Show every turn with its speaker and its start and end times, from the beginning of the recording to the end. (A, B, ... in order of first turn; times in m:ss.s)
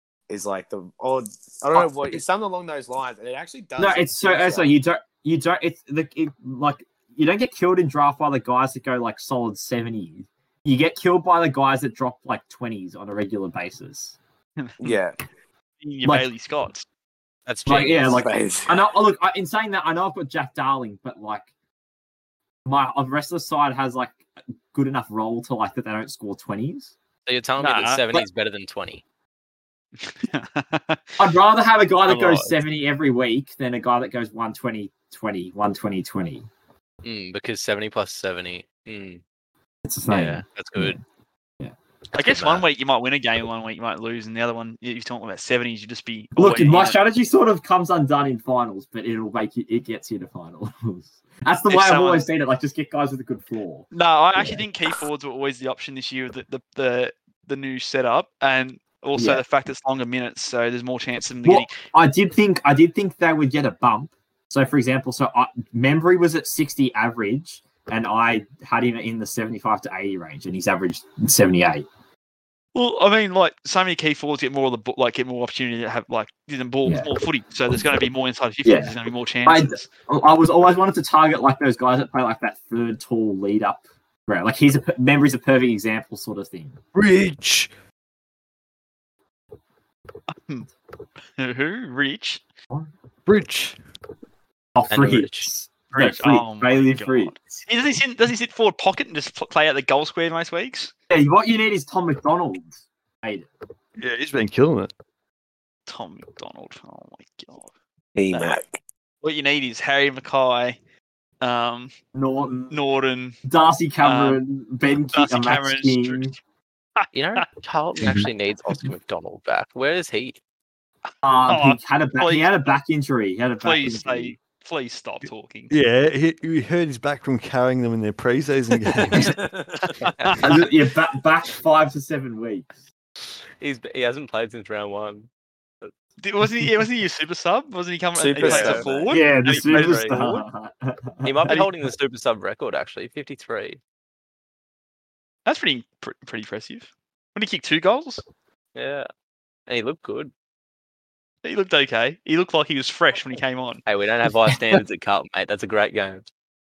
0:00.3-0:04.7 A
0:01.7-0:02.2 B
0:03.8-0:14.2 B
0:14.6-0:15.0 C
0:14.8-0:15.2 A
0:15.8-0:16.8 C
0:17.5-0:18.2 D
0:17.7-0:21.5 B
0:18.1-0:18.8 A
0:22.7-0:27.0 B
0:27.3-0:29.0 D
0:27.6-0:28.3 C
0:30.1-0:31.2 C
0:31.2-0:36.5 B
0:32.1-0:32.5 D
0:37.0-0:39.2 D
0:39.8-0:41.0 B
0:40.1-0:41.0 D
0:42.1-0:47.0 C
0:42.2-0:42.7 D
0:46.4-0:54.6 B
0:51.7-0:52.2 C
0:53.9-1:01.8 C
0:59.2-0:59.4 B
1:01.4-1:11.8 B
1:12.8-1:19.9 C
1:18.6-1:18.9 B
1:19.4-1:26.8 B
1:26.9-1:27.7 E
1:30.3-1:30.7 C
1:31.4-1:32.4 C
1:33.3-1:33.8 E
1:34.8-1:37.4 B
1:34.9-1:35.5 D
1:35.9-1:40.9 C
1:41.1-1:43.5 B
1:44.0-1:44.9 E
1:45.9-1:47.7 C
1:48.2-1:48.8 A
1:49.2-1:50.8 C
1:51.4-1:51.9 C
1:52.2-1:52.8 B
1:52.7-1:53.4 C
1:53.5-1:56.3 B
1:54.0-1:54.4 C
1:55.1-1:56.3 C
1:57.0-1:57.4 C
1:57.1-2:00.4 D
2:01.2-2:04.4 B
2:01.5-2:02.8 C
2:03.6-2:05.7 C
2:05.7-2:09.4 E
2:08.9-2:09.3 C
2:09.4-2:10.1 A
2:10.2-2:10.6 C
2:10.4-2:12.7 B
2:13.6-2:15.3 D
2:16.2-2:20.4 C
2:18.2-2:19.3 A
2:18.4-2:20.2 D
2:19.1-2:21.7 B
2:21.2-2:23.8 D
2:25.5-2:28.2 C
2:28.8-2:29.1 D
2:29.7-2:30.3 D
2:31.4-2:33.8 C
2:33.9-2:36.3 D